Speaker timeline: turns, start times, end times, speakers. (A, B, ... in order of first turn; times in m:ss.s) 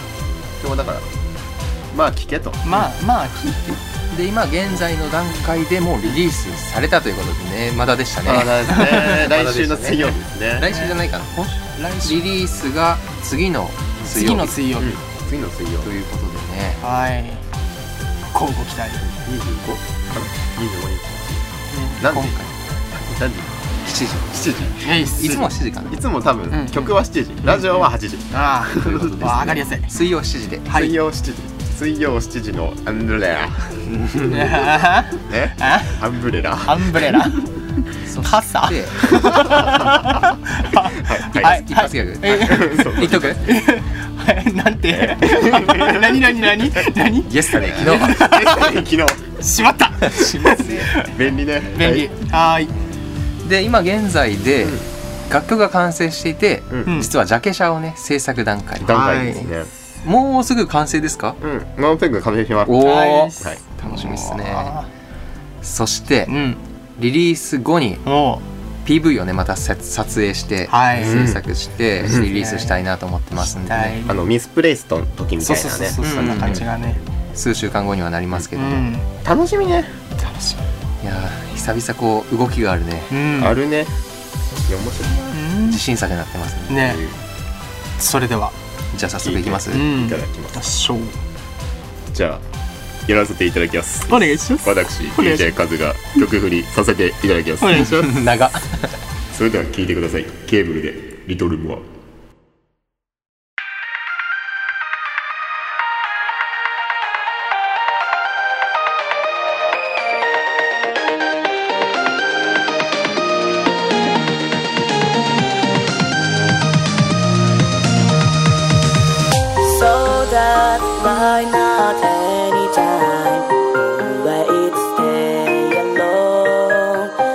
0:00.3-0:01.1 A
0:01.9-0:02.6 A
0:02.6-0:03.8 B
0:04.1-0:14.7 C
0:08.2-0:10.7 A
0:08.7-0:09.2 B
0:10.6-0:11.0 B
0:11.7-0:12.2 B
0:14.0-0:15.0 B
0:14.8-0:15.9 A
0:15.8-0:16.8 C
0:16.8-0:17.4 B
0:18.3-0:19.0 B
0:19.0-0:21.5 A
0:21.7-0:22.3 B
0:22.0-0:22.3 A
0:22.0-0:22.5 C
0:22.9-0:23.6 A
0:23.8-0:24.4 C
0:24.3-0:29.3 A
0:24.8-0:25.4 B
0:25.2-0:26.0 C
0:26.5-0:26.9 B
0:27.5-0:27.8 B
0:28.3-0:29.9 B
0:28.8-0:30.8 C
0:30.6-0:31.0 B
0:30.7-0:33.8 A
0:33.9-0:34.4 C
0:34.3-0:36.0 B
0:35.1-0:37.3 A
0:36.6-0:37.4 B
0:38.0-0:39.7 C
0:38.2-0:48.8 B
0:39.2-0:40.0 A
0:40.9-0:41.6 A
0:41.3-0:43.4 C
0:42.2-0:43.4 A
0:44.9-0:46.2 A
0:47.2-0:48.3 C
0:47.5-0:49.3 A
0:49.4-0:51.1 B
0:50.1-0:50.8 C
0:50.9-0:52.1 A
0:51.7-0:52.7 B
0:53.4-0:59.4 C
0:56.7-0:57.0 A
0:56.8-0:57.1 B
0:58.8-0:59.7 A
0:58.9-0:59.5 B
1:00.0-1:01.4 C
1:01.4-1:03.6 A
1:02.6-1:04.7 C
1:02.8-1:04.9 B
1:05.6-1:06.3 C
1:06.3-1:06.6 B
1:07.0-1:08.0 C
1:08.0-1:08.4 B
1:08.8-1:14.0 C
1:10.7-1:11.3 B
1:10.9-1:11.4 A
1:12.1-1:12.8 B
1:13.4-1:14.2 B
1:14.0-1:16.9 A
1:15.4-1:17.0 B
1:16.0-1:16.7 C
1:17.3-1:18.9 C
1:18.5-1:19.1 B
1:19.2-1:19.9 A
1:20.2-1:20.6 B
1:21.0-1:23.2 C
1:23.1-1:23.6 B
1:23.4-1:23.9 A
1:24.6-1:25.4 A
1:25.3-1:25.8 B
1:25.6-1:27.1 C
1:26.7-1:27.0 B
1:28.0-1:28.5 B
1:28.9-1:29.9 C
1:29.2-1:30.6 A
1:29.7-1:31.2 B
1:32.1-1:32.4 A
1:33.0-1:38.3 A
1:34.1-1:35.5 B
1:37.6-1:38.0 B
1:37.7-1:38.9 C
1:39.3-1:41.8 A
1:59.6-2:07.1 D